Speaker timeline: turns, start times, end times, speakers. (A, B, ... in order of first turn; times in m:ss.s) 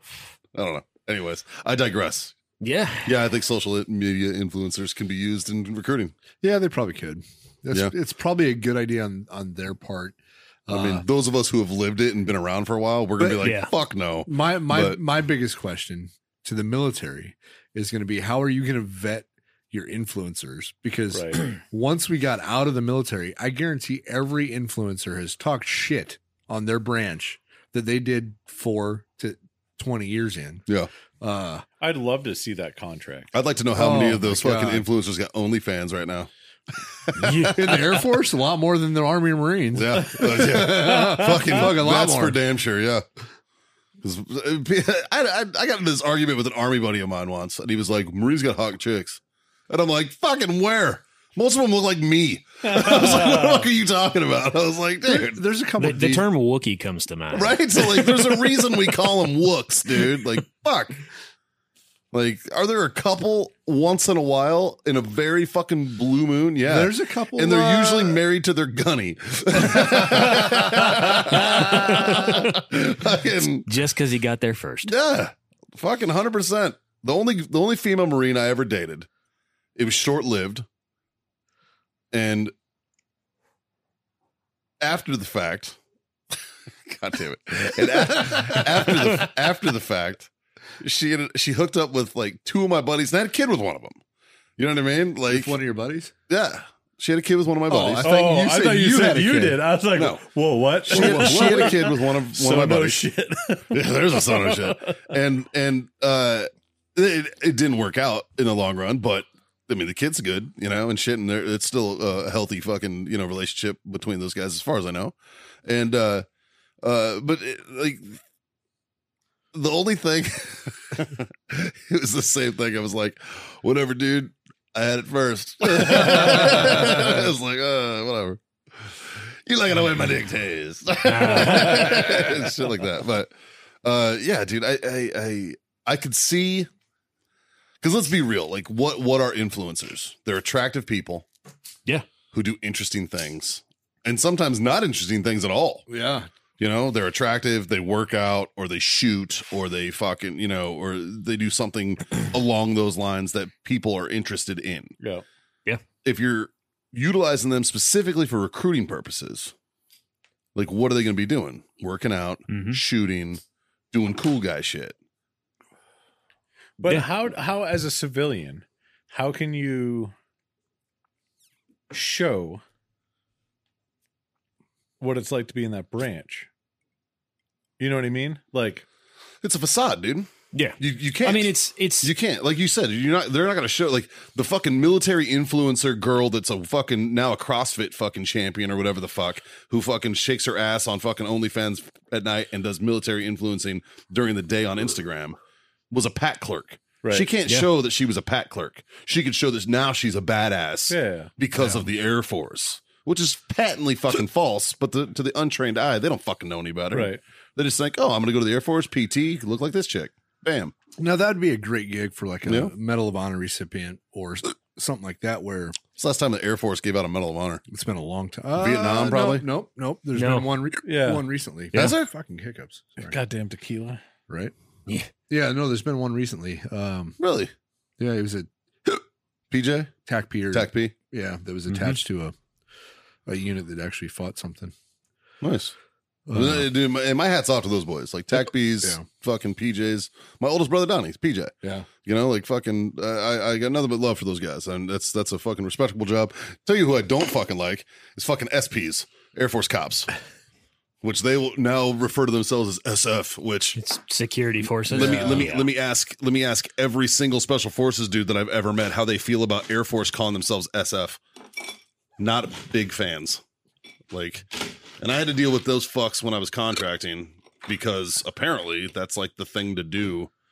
0:00.5-0:02.4 A
0:02.6-0:03.1 B
0:03.0-0:06.2 A
0:06.4-0:10.2 C
0:10.7-0:11.0 C
0:10.7-0:15.0 A
0:13.2-0:13.6 C
0:13.4-0:13.7 B
0:14.3-0:30.7 C
0:21.1-0:21.5 D
0:31.2-0:31.6 C
0:31.8-0:33.3 D
0:33.3-0:36.3 A
0:33.7-0:34.9 C
0:37.0-0:37.6 A
0:37.2-0:37.6 B
0:37.2-0:42.4 C
0:39.7-0:43.0 A
0:44.0-0:55.4 A
0:52.7-0:53.6 D
0:55.1-0:56.3 C
0:55.8-0:58.2 B
0:57.3-1:01.0 A
1:02.1-1:13.7 A
1:06.6-1:08.2 C
1:09.7-1:11.5 C
1:11.6-1:12.4 B
1:13.6-1:14.9 B
1:14.8-1:19.1 A
1:19.8-1:20.6 A
1:22.1-1:22.5 A
1:24.8-1:25.8 A
1:26.9-1:34.0 A
1:34.6-1:35.6 A
1:35.3-1:36.1 C
1:36.3-1:38.2 A
1:37.7-1:39.6 C
1:37.9-1:45.0 D
1:40.0-1:40.2 A
1:40.9-1:43.1 A
1:40.9-1:41.8 C
1:43.7-1:56.3 A
1:56.8-1:58.2 A
1:59.5-2:13.3 A
2:05.9-2:07.1 C
2:11.0-2:12.3 B
2:11.7-2:12.0 D
2:13.8-2:16.7 A
2:17.8-2:21.3 A
2:22.3-2:25.9 A
2:25.9-2:26.3 C
2:26.6-2:35.0 A
2:35.0-2:35.2 D
2:36.0-2:39.5 A
2:40.6-2:43.4 A
2:42.5-2:42.8 B
2:43.9-2:45.0 A
2:46.8-2:50.1 D
2:51.9-2:52.6 D
2:55.0-2:56.5 D
2:57.8-2:58.8 D
2:59.4-3:15.4 A
3:00.5-3:02.1 B
3:15.9-3:30.7 A
3:17.0-3:17.3 D
3:20.9-3:21.3 D
3:21.6-3:21.9 C
3:26.9-3:27.2 D
3:31.0-3:35.8 C
3:32.5-3:32.7 A
3:36.0-3:37.6 A
3:37.7-3:43.2 C
3:38.6-3:39.5 A
3:40.2-3:40.5 B
3:40.8-3:41.3 D
3:41.8-3:42.1 A
3:43.0-3:44.0 D
3:45.3-3:47.2 C
3:47.2-3:47.5 A
3:48.0-3:48.5 C
3:49.5-3:49.9 A
3:50.1-3:52.3 C
3:50.5-3:50.9 A
3:51.7-3:52.0 B
3:53.3-3:54.7 C
3:55.4-3:55.7 A
3:56.3-3:56.7 C
3:56.3-4:10.1 A
4:01.6-4:01.9 C
4:11.0-4:13.8 A
4:13.8-4:15.7 B
4:14.9-4:21.2 A
4:22.2-4:23.4 A
4:24.1-4:24.5 A
4:25.0-4:30.3 A